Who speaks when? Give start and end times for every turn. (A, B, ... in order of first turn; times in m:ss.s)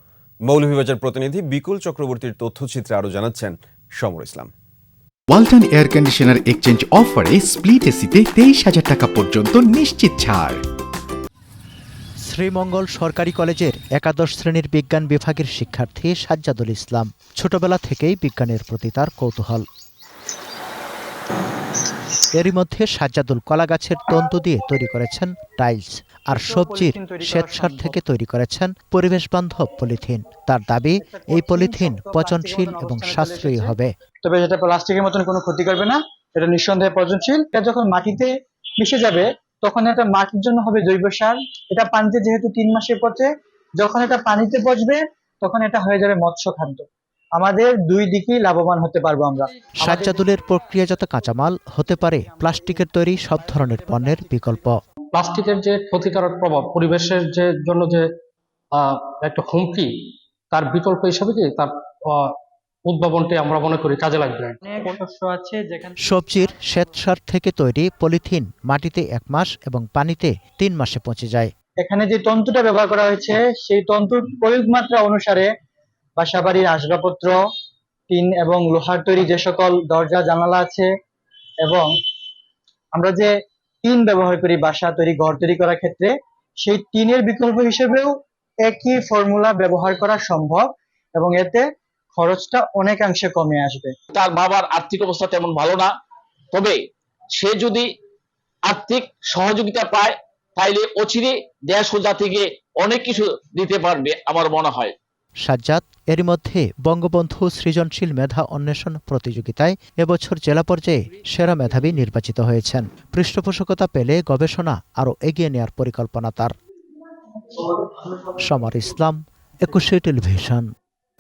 0:00.5-0:04.5 A
0:05.3-0:10.6 B
0:12.3-0:19.6 C
0:22.3-0:33.9 C
0:26.3-0:28.0 D
0:31.0-0:33.7 D
0:34.2-0:46.8 D
0:47.4-0:49.8 D
0:49.8-0:54.8 C
0:55.1-0:58.0 E
0:58.8-0:59.9 E
1:00.5-1:02.3 E
1:02.9-1:04.6 E
1:04.7-1:06.5 D
1:06.0-1:11.5 C
1:11.8-1:15.5 D
1:16.2-1:17.4 D
1:18.1-1:20.9 D
1:21.6-1:21.9 D
1:22.9-1:23.3 D
1:23.8-1:26.1 D
1:26.6-1:28.1 D
1:28.6-1:31.6 D
1:32.2-1:33.9 D
1:34.1-1:35.9 F
1:37.3-1:37.8 F
1:38.6-1:44.9 F
1:45.4-1:56.5 C
1:58.4-2:00.6 C